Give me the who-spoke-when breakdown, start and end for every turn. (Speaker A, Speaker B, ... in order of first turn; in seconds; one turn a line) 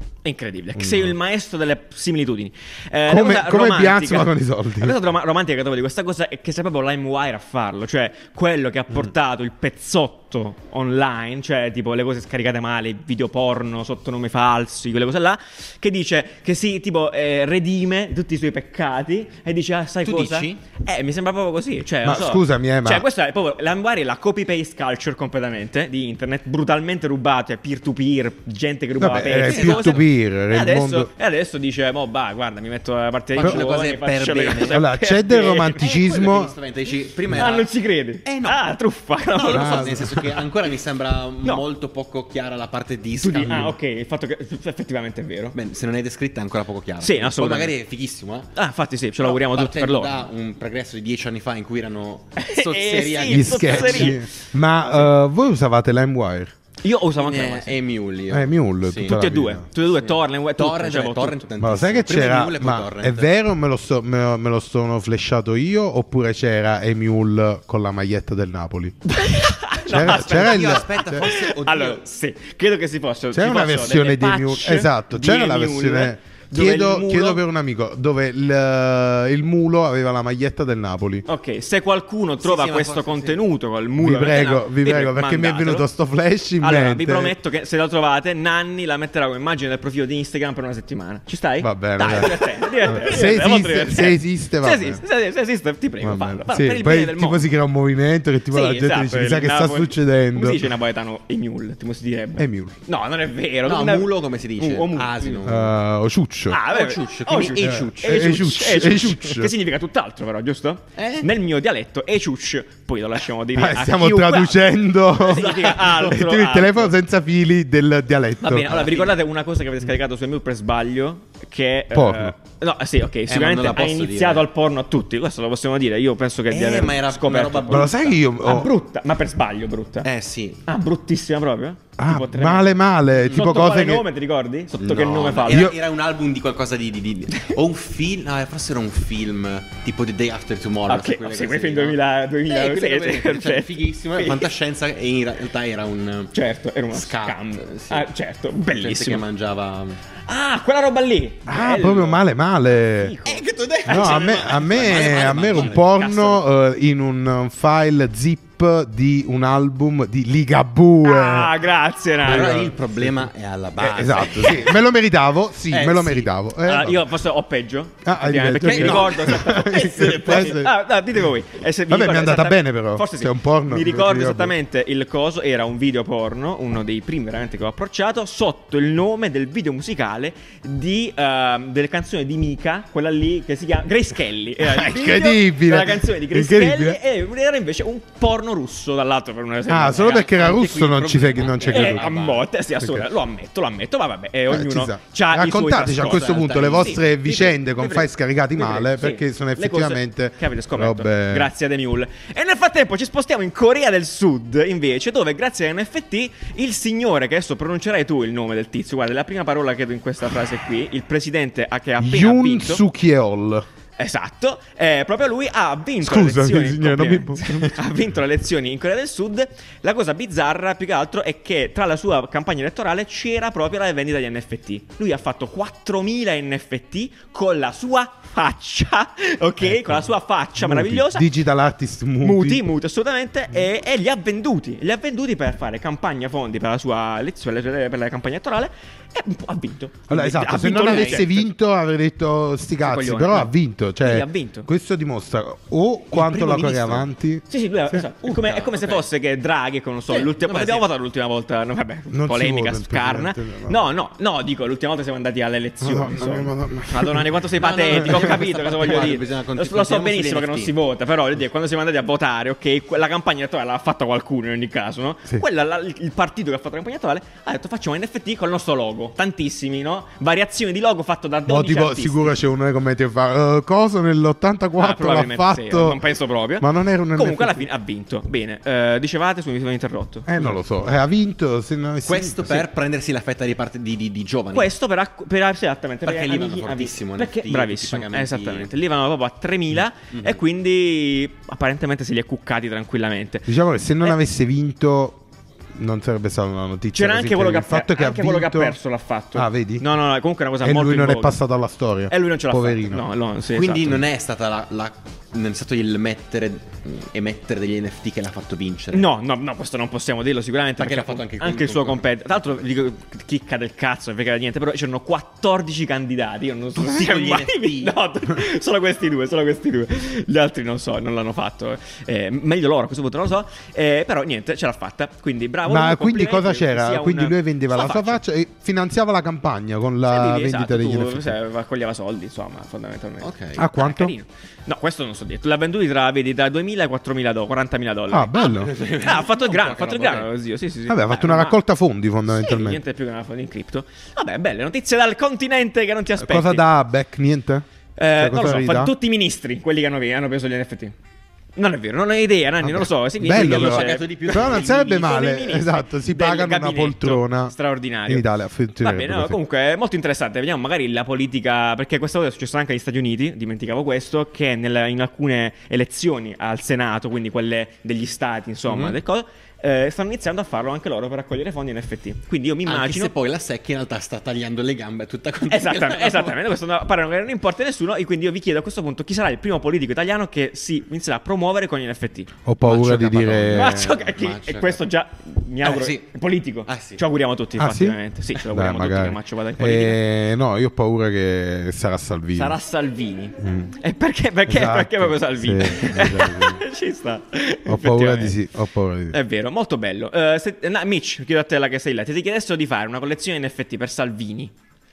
Speaker A: 0.2-35.9
Speaker B: 0.8-1.2
Speaker B: 3.1-5.0
Speaker C: 20.0-20.6
Speaker B: 22.0-23.1
Speaker B: 29.0-31.1
Speaker C: 29.4-30.0
Speaker C: 33.4-34.8
Speaker B: 33.4-33.6
Speaker B: 34.7-36.5
Speaker C: 35.7-37.7
Speaker A: 37.3-40.3
Speaker C: 38.2-43.7
Speaker B: 39.5-40.3
Speaker A: 43.2-45.6
Speaker B: 43.5-43.7
Speaker C: 45.5-48.5
Speaker A: 47.0-47.7
Speaker A: 48.5-50.2
Speaker C: 49.2-54.2
Speaker A: 52.4-54.2
Speaker B: 53.3-56.5
Speaker A: 56.8-57.8
Speaker C: 57.2-59.2
Speaker B: 58.3-59.7
Speaker A: 59.0-61.5
Speaker C: 60.0-63.3
Speaker B: 61.6-69.0
Speaker A: 69.0-77.4
Speaker B: 69.9-71.2
Speaker C: 70.0-72.0
Speaker B: 73.3-81.2
Speaker A: 81.2-85.9
Speaker C: 82.4-83.4
Speaker B: 84.0-87.3
Speaker A: 86.6-97.4
Speaker B: 91.6-95.0
Speaker B: 96.0-100.7
Speaker A: 98.5-105.4
Speaker B: 102.4-102.8
Speaker C: 103.6-105.7
Speaker B: 105.5-106.6
Speaker A: 106.5-116.9
Speaker C: 106.7-108.9
Speaker B: 107.6-109.5
Speaker C: 111.0-111.3
Speaker B: 113.5-118.9
Speaker A: 118.4-130.1
Speaker C: 118.8-119.1
Speaker B: 121.9-122.3
Speaker C: 123.3-124.5
Speaker C: 126.5-128.2
Speaker B: 127.7-128.7
Speaker C: 130.0-130.6
Speaker A: 130.7-135.7
Speaker B: 132.0-134.1
Speaker C: 134.8-146.3
Speaker B: 135.5-135.8
Speaker A: 140.9-144.5
Speaker A: 146.3-149.2
Speaker C: 146.9-148.1
Speaker C: 148.7-150.0
Speaker A: 150.3-152.2
Speaker B: 151.5-153.2
Speaker A: 153.0-156.4
Speaker C: 153.2-155.8
Speaker B: 153.9-161.6
Speaker A: 161.0-162.7
Speaker C: 162.2-164.8
Speaker B: 162.3-163.2
Speaker B: 163.8-167.1
Speaker C: 165.7-166.3
Speaker A: 166.6-190.6
Speaker B: 168.1-170.8
Speaker C: 168.6-170.7
Speaker B: 171.9-174.5
Speaker B: 184.6-187.0
Speaker B: 189.7-192.1
Speaker C: 190.0-192.5
Speaker A: 191.6-212.8
Speaker B: 192.8-193.1
Speaker B: 194.5-201.5
Speaker C: 196.0-197.0
Speaker B: 212.0-213.7
Speaker A: 214.0-231.3
Speaker B: 216.0-217.8
Speaker B: 229.6-232.6
Speaker A: 232.2-241.4
Speaker B: 240.1-248.0
Speaker C: 240.9-241.2
Speaker A: 242.8-244.7
Speaker C: 246.1-247.1
Speaker A: 247.5-272.4
Speaker C: 248.2-249.1
Speaker C: 250.1-250.9
Speaker B: 252.1-253.8
Speaker B: 255.8-257.3
Speaker C: 257.6-260.8
Speaker B: 271.5-276.0
Speaker A: 274.8-280.6
Speaker B: 276.6-277.6
Speaker B: 280.3-282.7
Speaker C: 282.1-284.7
Speaker A: 284.5-293.5
Speaker C: 286.0-288.7
Speaker C: 290.1-290.4
Speaker B: 293.5-295.2
Speaker B: 295.8-298.8
Speaker A: 296.9-301.4
Speaker B: 299.4-299.9
Speaker B: 300.6-303.1
Speaker A: 302.1-304.0
Speaker C: 303.5-309.1
Speaker A: 308.9-328.2
Speaker C: 310.8-312.1
Speaker C: 316.8-318.0
Speaker B: 325.7-331.4
Speaker A: 330.1-341.6
Speaker C: 333.2-333.7
Speaker B: 333.6-334.1
Speaker B: 338.1-338.7
Speaker C: 338.4-340.3
Speaker B: 340.9-342.8
Speaker A: 342.3-346.6
Speaker B: 346.2-348.9
Speaker A: 348.0-351.0
Speaker A: 351.6-358.2
Speaker B: 352.6-357.6
Speaker C: 353.3-355.2
Speaker B: 358.1-359.4
Speaker A: 358.8-373.1
Speaker C: 368.7-369.0
Speaker C: 372.7-376.4
Speaker A: 375.5-382.3
Speaker B: 382.5-384.0
Speaker C: 382.6-384.8
Speaker A: 383.5-390.0
Speaker C: 385.6-386.1
Speaker C: 386.7-387.0
Speaker B: 387.6-392.6
Speaker A: 392.3-398.4
Speaker B: 393.4-393.7
Speaker B: 394.5-396.6
Speaker B: 397.7-399.2
Speaker A: 399.1-404.5